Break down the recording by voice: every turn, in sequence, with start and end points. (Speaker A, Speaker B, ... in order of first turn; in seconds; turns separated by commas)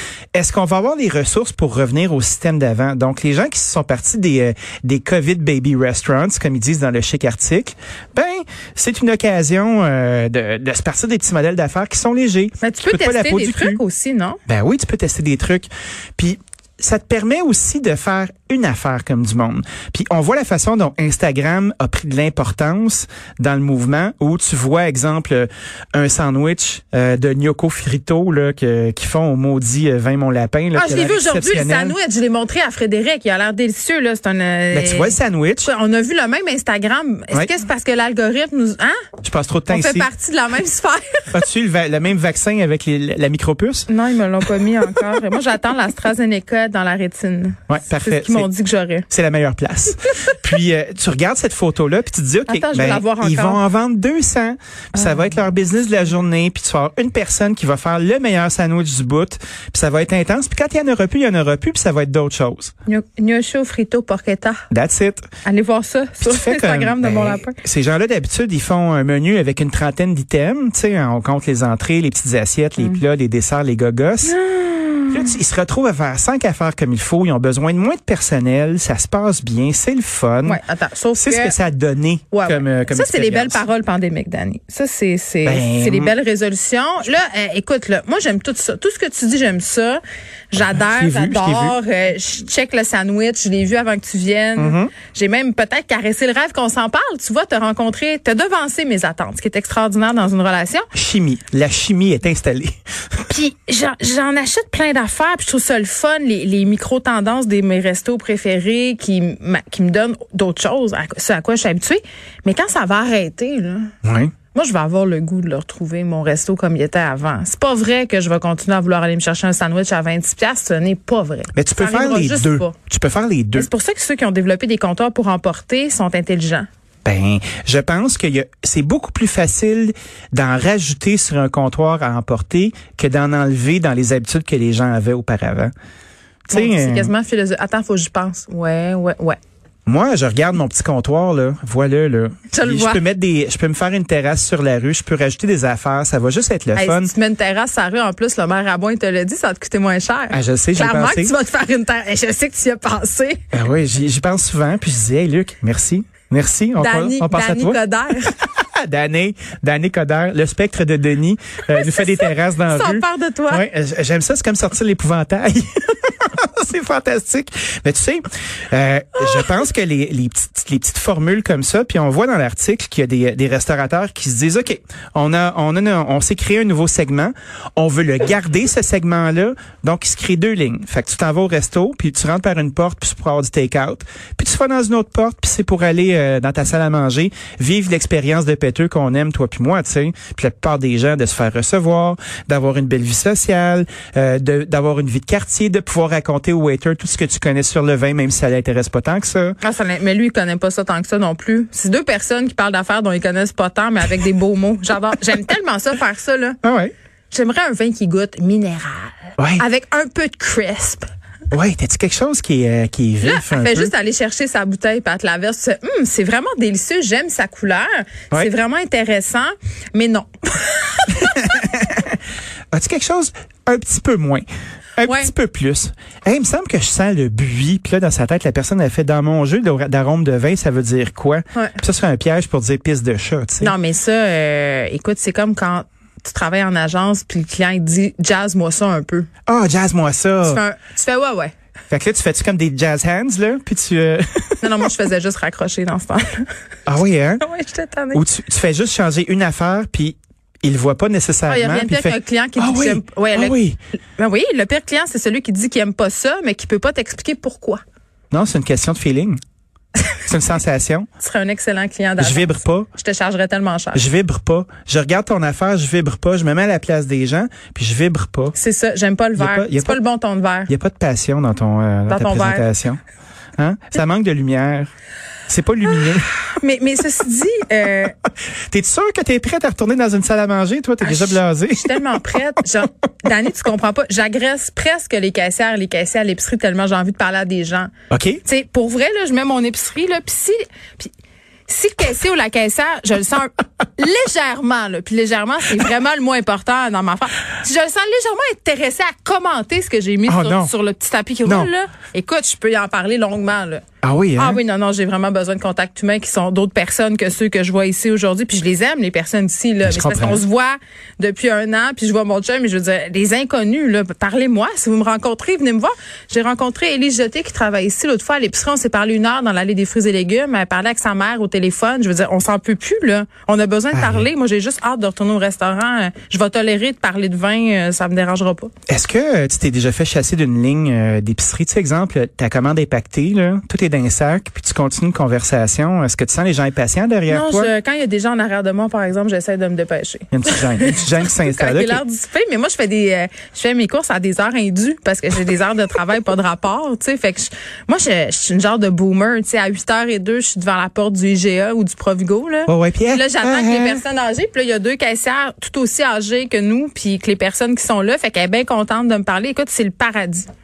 Speaker A: 0.3-13.8, Speaker B: 12.6-14.4, Speaker A: 14.5-31.9, Speaker B: 30.7-39.0, Speaker A: 34.7-35.7, Speaker A: 39.2-40.1, Speaker B: 39.7-41.3, Speaker A: 41.3-43.9, Speaker B: 43.9-49.0, Speaker A: 47.7-48.5, Speaker A: 49.1-62.7, Speaker B: 52.5-53.6, Speaker B: 54.9-55.2, Speaker B: 62.9-64.6, Speaker A: 64.7-65.2, Speaker B: 65.4-67.5, Speaker A: 66.2-74.4, Speaker B: 74.2-75.4, Speaker A: 75.1-80.6, Speaker B: 80.4-81.6, Speaker A: 81.2-83.6, Speaker B: 82.3-90.0, Speaker A: 85.4-86.1, Speaker B: 90.5-100.9, Speaker A: 90.8-91.8, Speaker A: 94.6-94.9, Speaker A: 100.9-102.7, Speaker B: 103.2-113.9, Speaker A: 114.0-114.3, Speaker B: 114.5-122.7, Speaker A: 121.5-123.7, Speaker B: 123.5-126.7, Speaker A: 127.0-135.7, Speaker A: 136.4-137.1, Speaker B: 136.5-139.4, Speaker A: 139.8-147.1, Speaker B: 142.5-143.0, Speaker B: 146.7-153.4, Speaker A: 150.3-151.3, Speaker A: 153.5-157.8, Speaker B: 156.8-158.3, Speaker A: 158.4-199.6, Speaker B: 161.7-163.7, Speaker B: 169.2-169.5, Speaker B: 199.6-206.6, Speaker A: 206.6-206.9, Speaker B: 207.3-211.1, Speaker A: 209.4-209.6, Speaker A: 211.5-213.9, Speaker B: 213.2-221.7, Speaker A: 221.3-222.2, Speaker A: 222.7-233.7, Speaker B: 225.0-225.3, Speaker B: 233.6-239.3, Speaker A: 239.5-240.6, Speaker B: 240.4-241.5, Speaker A: 241.9-244.9, Speaker B: 244.6-246.5, Speaker A: 246.9-247.4, Speaker B: 247.4-248.2, Speaker A: 248.1-253.8, Speaker B: 251.4-253.6, Speaker B: 254.2-257.8, Speaker A: 258.3-259.4, Speaker A: 260.2-261.1, Speaker B: 261.2-264.1, Speaker A: 262.2-262.9, Speaker A: 263.9-268.6, Speaker B: 268.6-270.7, Speaker A: 269.4-270.0, Speaker A: 270.7-273.0, Speaker B: 272.1-272.7, Speaker A: 273.6-274.9, Speaker A: 275.5-276.3, Speaker B: 276.5-278.1, Speaker A: 278.7-282.2, Speaker B: 281.0-287.9, Speaker A: 288.1-288.4, Speaker B: 288.4-291.1, Speaker B: 291.7-303.8, Speaker A: 300.3-300.7, Speaker A: 301.4-301.7, Speaker A: 304.0-304.6, Speaker B: 304.4-328.7, Speaker A: 309.8-310.4, Speaker A: 323.9-324.3, Speaker A: 328.9-337.7, Speaker B: 337.3-360.5, Speaker A: 340.3-342.0, Speaker A: 352.7-354.0